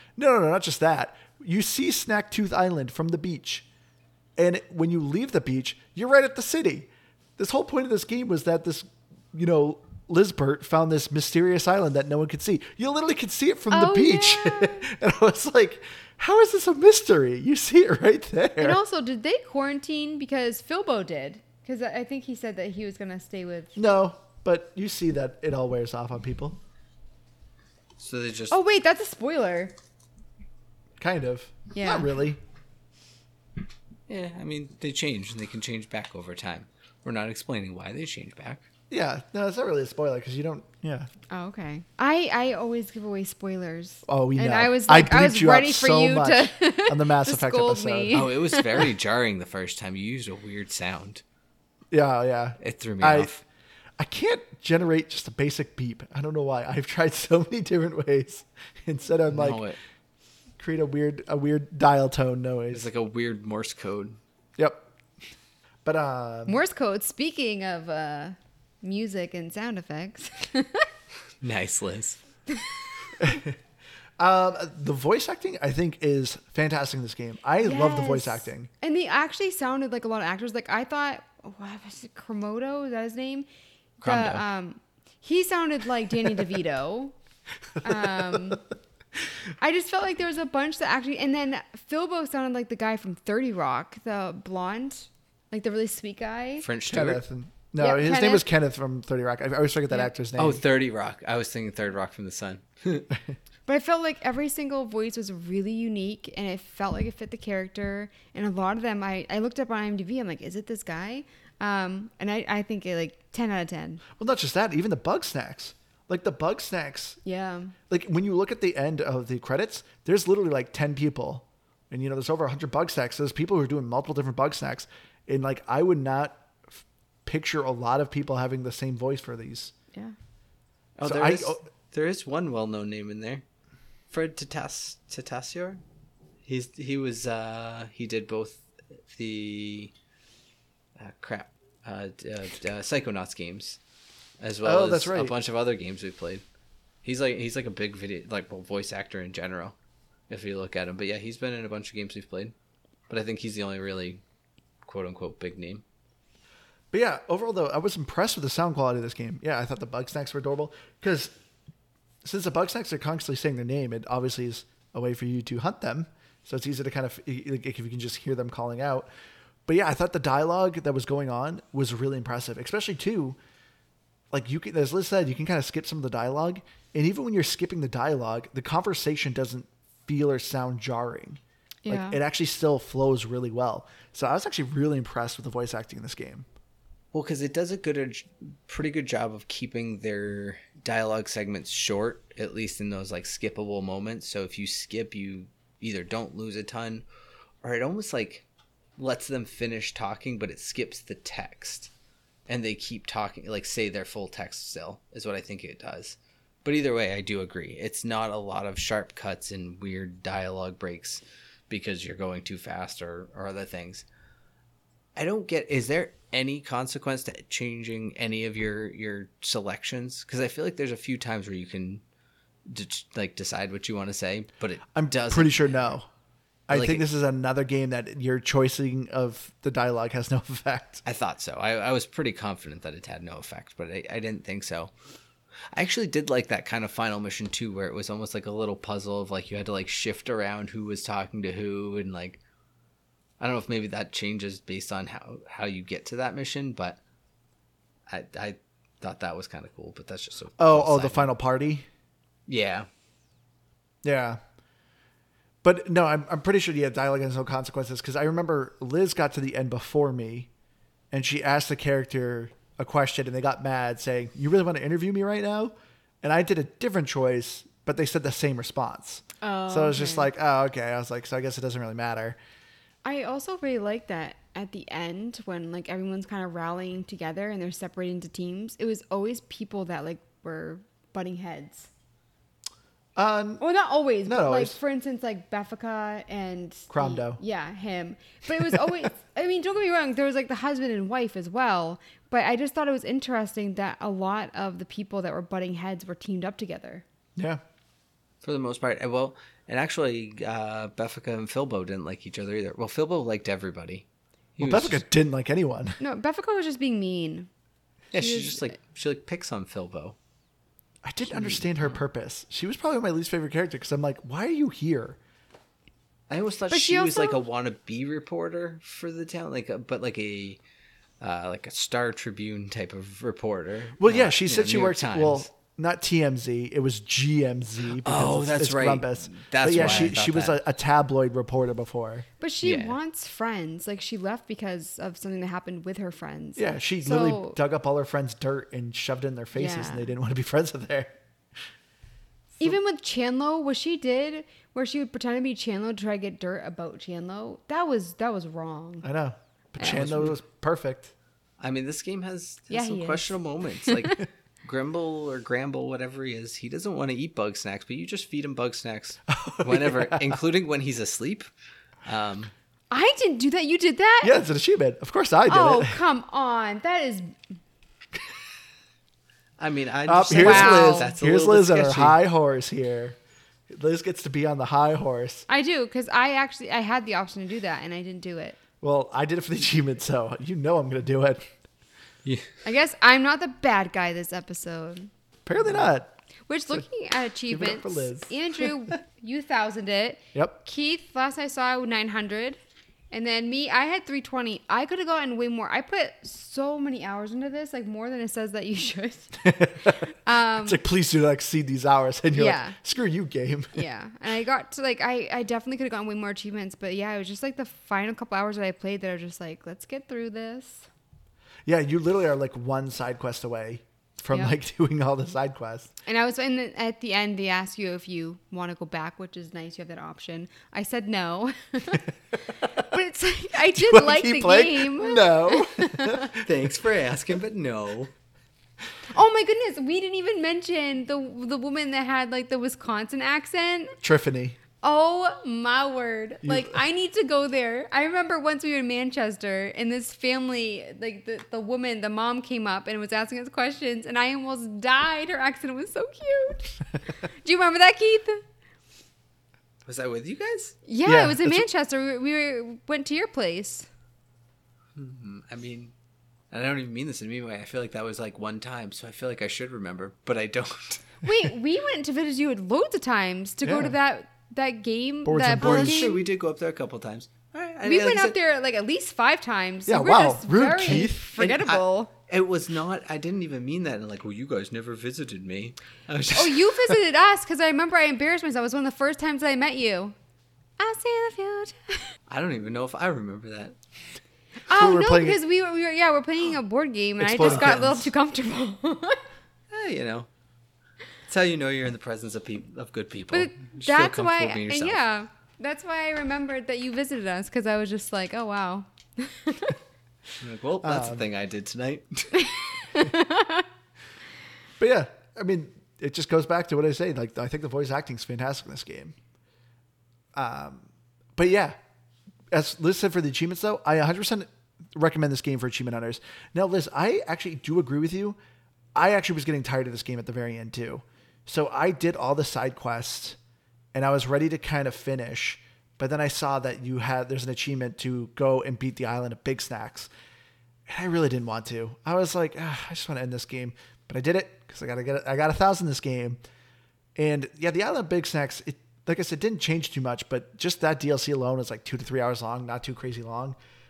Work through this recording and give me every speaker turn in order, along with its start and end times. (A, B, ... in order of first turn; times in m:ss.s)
0:00.2-0:03.6 A
0:04.4-0:18.8 A
0:13.7-0:14.9 B
0:18.6-0:23.8 B
0:23.7-0:26.6 A
0:28.0-0:28.6 C
0:28.5-0:29.7 B
0:31.0-0:32.4 A
0:31.7-0:32.1 B
0:34.1-0:38.6 C
0:38.9-0:41.1 A
0:41.3-0:48.8 B
0:44.0-0:48.2 A
0:48.1-0:51.2 C
0:51.9-0:53.3 A
0:52.6-0:53.4 C
0:54.0-0:59.6 A
0:59.3-0:59.8 C
1:00.6-1:02.9 A
1:02.7-1:04.2 C
1:04.6-1:04.9 A
1:05.8-1:06.6 A
1:06.4-1:10.9 B
1:11.4-1:12.2 C
1:12.5-1:12.8 B
1:13.2-1:13.6 A
1:14.2-1:18.7 A
1:17.6-1:23.5 B
1:24.0-1:27.1 B
1:24.0-1:24.4 C
1:27.8-1:28.6 B
1:27.9-1:28.5 A
1:29.6-1:36.6 B
1:36.6-1:37.2 C
1:36.9-1:40.6 A
1:37.8-1:38.4 B
1:40.4-1:43.1 C
1:43.7-1:54.0 B
1:54.2-1:57.2 A
1:57.2-1:57.8 B
1:57.9-2:09.7 A
2:11.0-2:13.4 C
2:11.0-2:11.6 A
2:14.1-2:15.8 C
2:16.4-2:19.9 C
2:21.0-2:23.8 C
2:24.4-2:26.4 C
2:24.6-2:25.3 A
2:27.0-2:29.8 C
2:30.3-2:32.5 C
2:33.1-2:34.2 C
2:34.8-2:35.8 C
2:36.9-2:41.3 A
2:42.2-2:49.1 A
2:49.6-2:53.4 A
2:54.3-3:06.5 A
3:01.8-3:02.2 B
3:07.1-3:17.0 C
3:17.6-3:18.4 C
3:19.0-3:21.9 C
3:22.5-3:34.0 C
3:35.2-3:42.0 C
3:42.6-3:45.9 C
3:45.0-3:46.1 A
3:46.7-3:51.0 A
3:46.7-3:47.0 C
3:51.0-3:54.9 C
3:55.7-4:02.4 C
4:03.4-4:07.0 C
4:08.1-4:11.3 C
4:10.6-4:11.9 A
4:12.5-4:12.9 C
4:14.0-4:14.4 A
4:15.6-4:20.5 A
4:21.1-4:32.4 A
4:29.4-4:30.3 B
4:33.0-4:41.9 B
4:43.2-4:43.6 A
4:43.6-4:57.0 B
4:44.2-4:44.8 A
4:46.9-4:47.4 A
4:48.6-4:49.0 A
4:57.4-4:57.6 A
4:58.4-5:04.0 C
5:04.6-5:05.0 C
5:04.6-5:06.0 A
5:06.0-5:07.5 B
5:08.1-5:10.2 C
5:08.1-5:08.7 B
5:11.0-5:15.2 A
5:11.3-5:11.6 C
5:16.3-5:20.6 C
5:16.7-5:17.4 B
5:21.2-5:25.5 C
5:24.0-5:32.3 A
5:28.0-5:30.6 C
5:29.8-5:30.0 B
5:32.4-5:37.6 B
5:32.6-5:33.0 C
5:36.6-5:41.2 A
5:39.5-5:40.1 B
5:42.6-5:49.0 B
5:49.0-5:51.1 A
5:49.8-5:50.3 C
5:51.6-6:01.5 C
5:52.7-5:54.2 B
5:59.3-6:00.4 A
6:02.0-6:02.5 C
6:02.9-6:04.3 B
6:04.2-6:06.0 A
6:05.5-6:07.4 B
6:09.6-6:12.2 C
6:10.0-6:13.2 A
6:10.4-6:11.1 B
6:13.7-6:15.4 A
6:15.5-6:18.6 B
6:18.8-6:21.5 A
6:22.6-6:25.1 B
6:25.4-6:26.1 A
6:26.5-6:32.6 B
6:27.5-6:28.7 A
6:33.1-6:40.8 B
6:39.4-6:43.8 A
6:42.3-6:42.8 B
6:43.7-6:50.9 B
6:51.6-6:55.9 A
6:56.0-7:06.3 B
7:03.7-7:06.4 A
7:06.4-7:08.1 C
7:09.1-7:14.0 B
7:14.0-7:14.6 A
7:14.8-7:28.4 B
7:16.4-7:16.8 A
7:29.8-7:30.8 C
7:30.8-7:33.9 B
7:31.0-7:31.6 A
7:35.0-7:35.9 C
7:36.5-7:41.2 C
7:41.2-7:46.2 B
7:43.6-7:44.0 A
7:45.2-7:46.0 A
7:45.6-7:48.3 C
7:47.8-7:52.1 B
7:49.9-7:51.3 A
7:51.4-7:57.0 C
7:56.3-8:00.1 B
8:00.8-8:02.1 B
8:02.3-8:03.8 C
8:04.7-8:09.2 B
8:04.7-8:05.4 A
8:07.2-8:08.1 A
8:07.4-8:07.8 C
8:09.7-8:10.3 C
8:11.3-8:15.0 C
8:13.3-8:19.8 B
8:20.4-8:22.4 C
8:20.8-8:21.2 A
8:22.3-8:23.6 B
8:24.8-8:29.2 A
8:30.3-8:31.8 A
8:32.5-8:38.4 A
8:38.9-8:43.4 A
8:43.9-8:50.1 A
8:50.9-8:56.4 A
8:57.2-9:03.6 A